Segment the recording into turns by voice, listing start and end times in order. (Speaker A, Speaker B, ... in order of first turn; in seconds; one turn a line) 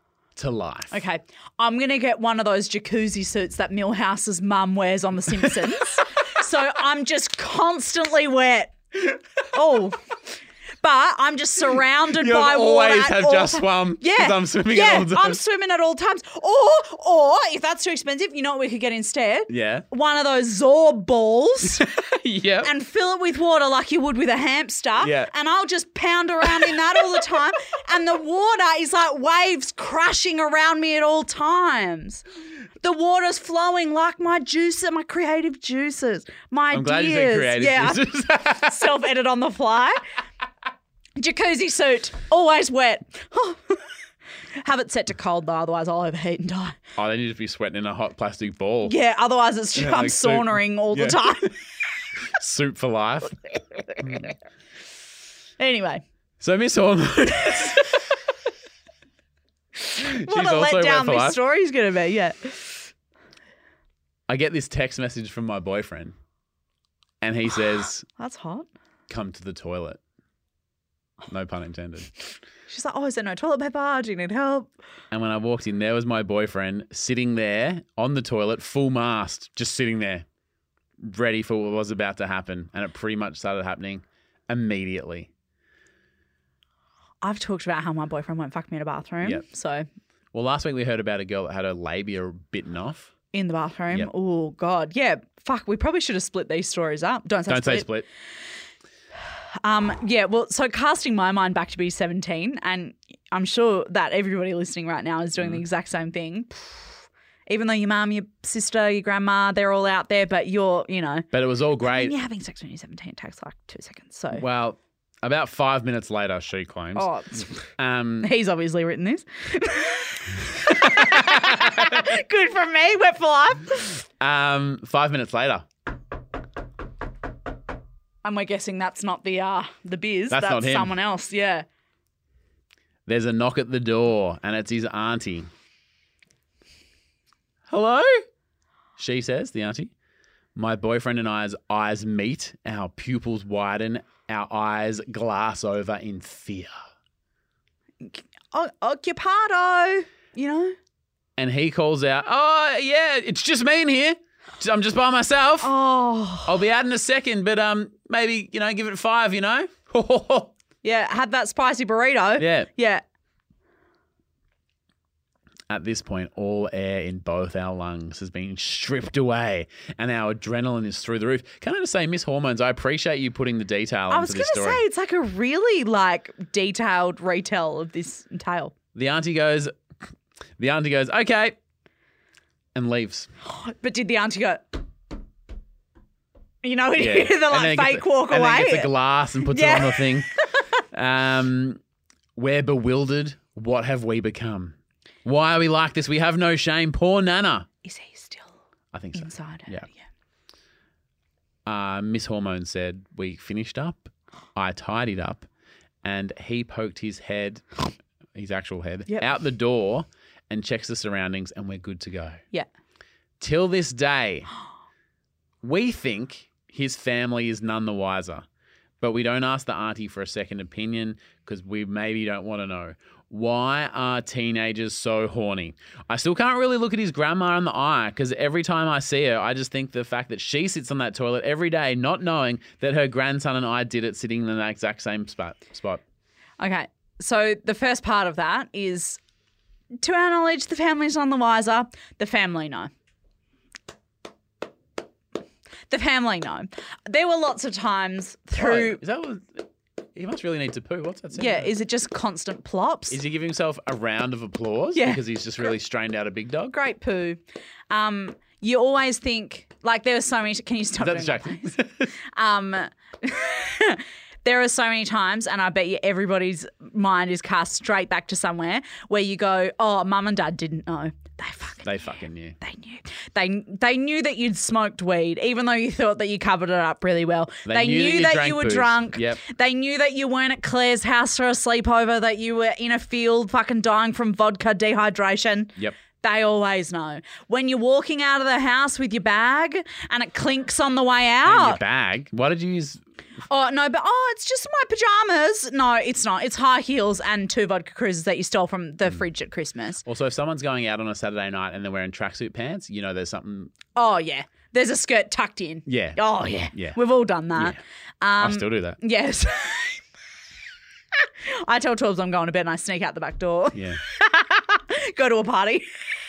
Speaker A: 0.4-1.0
Speaker B: 0.9-8.8
Speaker B: 9.5-10.0
Speaker B: 10.8-21.9
Speaker A: 12.1-15.4
Speaker A: 19.5-19.9
Speaker A: 21.8-22.7
Speaker B: 22.6-32.2
Speaker A: 25.0-25.3
Speaker A: 26.4-27.2
Speaker B: 32.8-40.0
Speaker A: 36.7-38.9
Speaker B: 41.2-43.8
Speaker B: 44.6-46.8
Speaker A: 47.0-49.0
Speaker B: 48.9-51.5
Speaker A: 49.8-51.5
Speaker A: 52.3-53.4
Speaker A: 54.0-54.3
Speaker B: 55.6-56.0
Speaker A: 56.4-58.1
Speaker B: 59.9-62.9
Speaker A: 60.0-61.4
Speaker A: 64.3-66.1
Speaker A: 67.2-68.1
Speaker B: 68.2-68.7
Speaker A: 69.1-70.0
Speaker A: 71.3-72.1
Speaker B: 72.7-74.7
Speaker A: 75.1-80.2
Speaker A: 81.0-85.3
Speaker B: 87.2-89.9
Speaker A: 90.3-93.1
Speaker B: 93.3-97.9
Speaker A: 97.5-98.1
Speaker B: 99.6-111.3
Speaker A: 105.4-105.6
Speaker A: 111.3-112.1
Speaker B: 111.8-114.4
Speaker A: 114.3-117.1
Speaker B: 117.0-117.7
Speaker A: 117.8-118.3
Speaker B: 118.2-124.0
Speaker A: 120.7-121.9
Speaker A: 124.2-125.7
Speaker B: 128.2-131.6
Speaker A: 130.3-130.9
Speaker A: 133.1-135.5
Speaker A: 137.7-138.2
Speaker A: 139.0-139.9
Speaker A: 140.6-146.8
Speaker B: 148.0-150.8
Speaker A: 151.4-155.7
Speaker B: 155.6-156.6
Speaker A: 156.4-160.5
Speaker B: 160.8-163.0
Speaker A: 162.4-162.7
Speaker A: 165.7-174.8
Speaker B: 174.1-178.7
Speaker A: 178.9-179.7
Speaker A: 180.6-181.6
Speaker A: 182.8-183.3
Speaker B: 183.5-184.8
Speaker B: 186.6-188.9
Speaker A: 187.0-190.3
Speaker B: 189.5-190.2
Speaker A: 190.9-191.8
Speaker A: 192.4-197.7
Speaker B: 197.8-198.6
Speaker A: 198.9-199.9
Speaker B: 199.1-200.0
Speaker A: 201.7-205.5
Speaker A: 206.0-207.8
Speaker A: 208.3-212.4
Speaker A: 213.4-214.5
Speaker A: 215.6-218.4
Speaker A: 219.0-236.0
Speaker B: 236.6-239.2
Speaker B: 240.0-242.9
Speaker B: 245.9-249.0
Speaker A: 248.6-251.7
Speaker B: 251.3-253.2
Speaker A: 253.1-256.8
Speaker B: 254.9-255.2
Speaker B: 256.7-271.9
Speaker A: 261.0-262.1
Speaker A: 271.8-272.6
Speaker B: 272.6-291.8
Speaker A: 277.6-279.4
Speaker A: 291.4-293.0
Speaker B: 293.5-300.0
Speaker A: 300.0-303.8
Speaker B: 303.9-310.0
Speaker A: 305.9-307.0
Speaker A: 308.4-309.0
Speaker B: 311.4-315.9
Speaker A: 313.7-314.0